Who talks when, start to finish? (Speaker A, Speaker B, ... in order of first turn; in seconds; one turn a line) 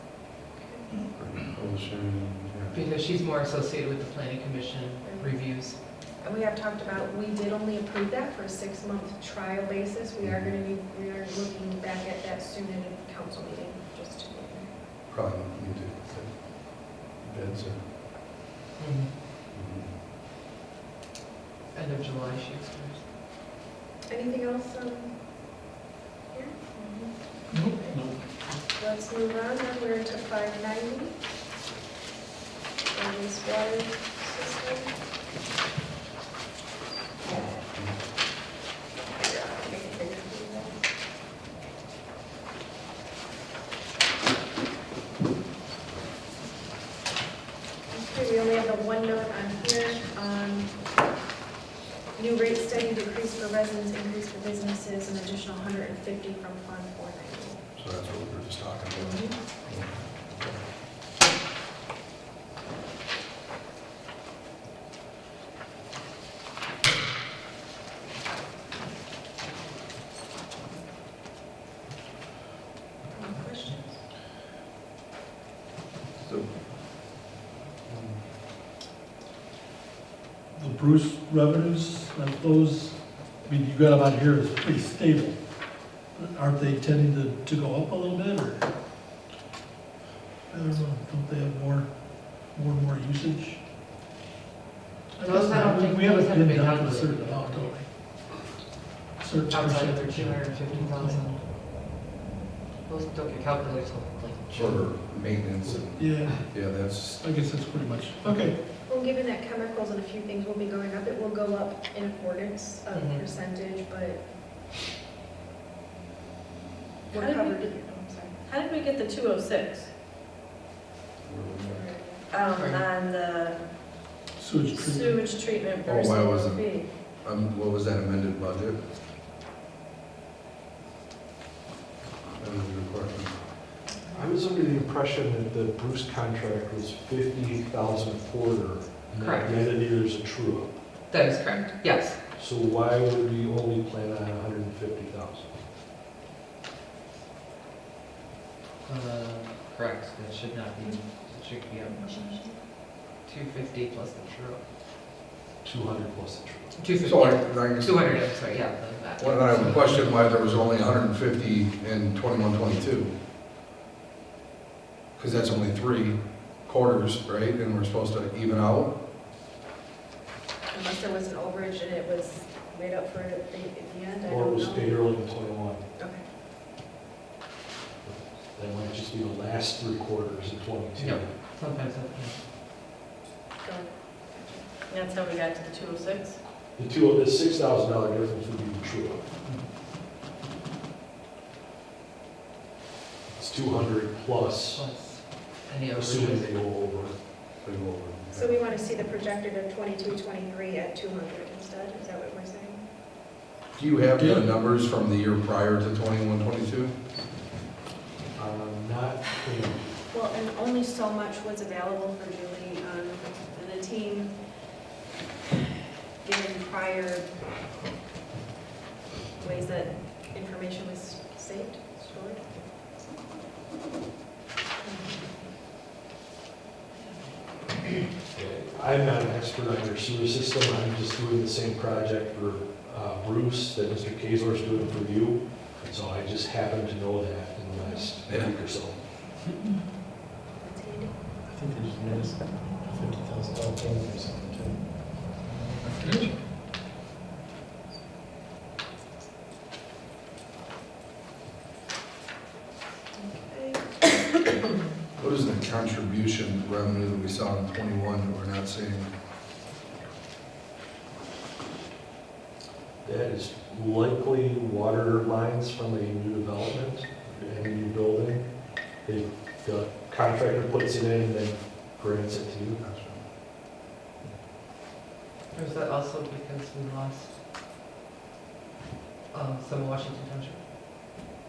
Speaker A: 0.6-0.9
Speaker B: 1.1-2.8
Speaker C: 2.7-5.8
Speaker A: 5.0-5.4
Speaker A: 6.2-14.7
Speaker B: 10.2-10.5
Speaker B: 15.1-17.8
Speaker C: 18.8-19.1
Speaker B: 19.5-19.9
Speaker C: 21.7-23.1
Speaker A: 24.1-25.5
Speaker A: 26.3-31.2
Speaker A: 32.9-34.9
Speaker A: 39.5-40.7
Speaker A: 47.9-50.7
Speaker A: 52.1-57.6
Speaker B: 57.8-60.6
Speaker A: 59.0-59.4
Speaker A: 73.1-74.0
Speaker B: 76.2-76.6
Speaker B: 77.9-78.2
Speaker D: 80.5-88.7
Speaker D: 90.5-93.6
Speaker D: 95.2-97.9
Speaker C: 95.2-97.8
Speaker D: 99.2-101.3
Speaker C: 99.5-101.4
Speaker C: 102.8-104.9
Speaker B: 104.5-107.2
Speaker D: 105.9-108.6
Speaker A: 108.8-114.2
Speaker C: 112.9-113.2
Speaker A: 117.1-118.4
Speaker E: 117.1-119.9
Speaker B: 121.2-121.8
Speaker A: 121.6-122.2
Speaker E: 122.3-123.7
Speaker C: 122.5-122.8
Speaker D: 124.3-125.2
Speaker E: 124.7-126.9
Speaker B: 125.8-128.8
Speaker B: 132.4-133.6
Speaker F: 134.1-140.8
Speaker C: 139.1-139.6
Speaker C: 141.1-142.2
Speaker F: 142.4-145.5
Speaker C: 148.8-152.4
Speaker A: 151.8-152.5
Speaker C: 153.2-154.6
Speaker F: 155.6-156.7
Speaker C: 156.8-160.1
Speaker B: 157.0-158.2
Speaker B: 159.2-163.1
Speaker B: 165.2-168.9
Speaker A: 170.7-175.0
Speaker F: 174.3-175.8
Speaker A: 175.9-176.2
Speaker F: 178.0-181.3
Speaker C: 181.0-182.4
Speaker A: 183.6-184.7
Speaker E: 184.9-186.3
Speaker F: 186.8-189.2
Speaker F: 193.3-194.8
Speaker C: 194.7-196.5
Speaker F: 195.9-197.2
Speaker B: 197.6-198.6
Speaker A: 198.3-202.8
Speaker B: 203.8-206.9
Speaker D: 204.2-204.4
Speaker F: 208.3-209.8
Speaker A: 210.1-214.7
Speaker A: 216.2-217.3
Speaker A: 219.4-222.7
Speaker A: 224.8-225.2
Speaker F: 228.3-239.0
Speaker A: 237.8-238.1
Speaker B: 238.3-238.6
Speaker A: 240.6-241.2
Speaker G: 241.4-245.0
Speaker G: 245.8-246.2
Speaker C: 245.9-246.3
Speaker A: 253.2-254.1
Speaker B: 255.2-259.1
Speaker F: 263.0-272.8
Speaker B: 272.8-273.2
Speaker C: 275.5-277.4
Speaker C: 279.3-280.6